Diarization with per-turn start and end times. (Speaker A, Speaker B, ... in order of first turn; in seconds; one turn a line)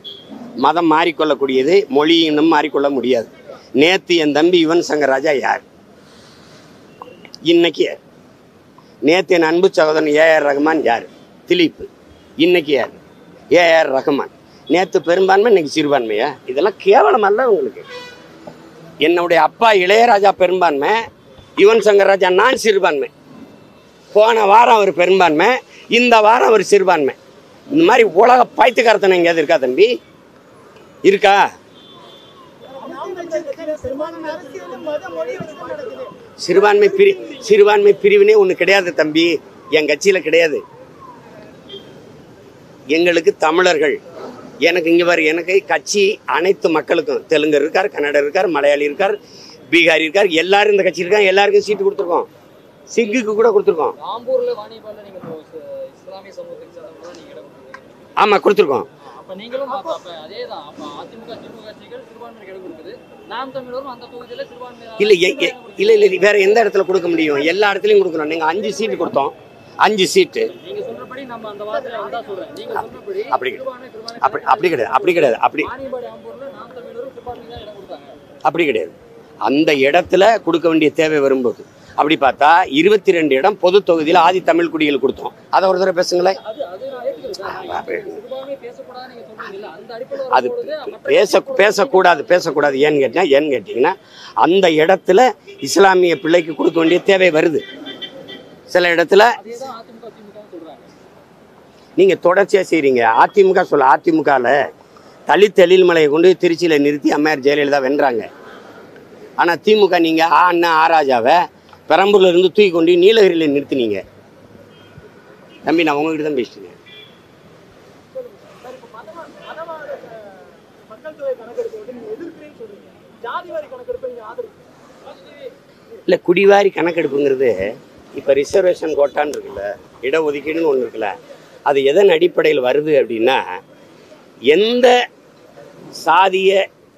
Speaker A: 0.6-5.6
Speaker A: 7.5-8.0
Speaker A: 9.1-13.0
Speaker A: 13.5-17.9
Speaker A: 19.0-21.0
Speaker A: 21.6-23.1
Speaker A: 24.1-27.2
Speaker A: 27.7-29.9
Speaker A: 31.0-31.5
Speaker B: 32.7-36.1
Speaker A: 36.4-40.6
Speaker A: 42.9-44.0
Speaker A: 44.6-49.2
Speaker A: 49.7-52.3
Speaker A: 52.9-54.0
Speaker C: 54.0-58.1
Speaker A: 58.2-58.9
Speaker C: 59.0-66.3
Speaker A: 65.0-70.5
Speaker C: 70.5-78.2
Speaker A: 73.3-73.6
Speaker A: 74.2-75.7
Speaker A: 78.5-86.4
Speaker C: 86.4-92.7
Speaker A: 87.5-88.2
Speaker A: 90.3-97.6
Speaker A: 98.7-99.4
Speaker C: 99.3-100.9
Speaker A: 102.0-104.6
Speaker A: 105.3-108.3
Speaker A: 109.4-114.0
Speaker A: 115.7-116.8
Speaker B: 118.7-119.8
Speaker B: 120.9-122.5
Speaker B: 123.2-123.5
Speaker A: 126.1-131.1
Speaker A: 131.7-133.6
Speaker A: 134.5-134.9
Speaker A: 136.0-136.6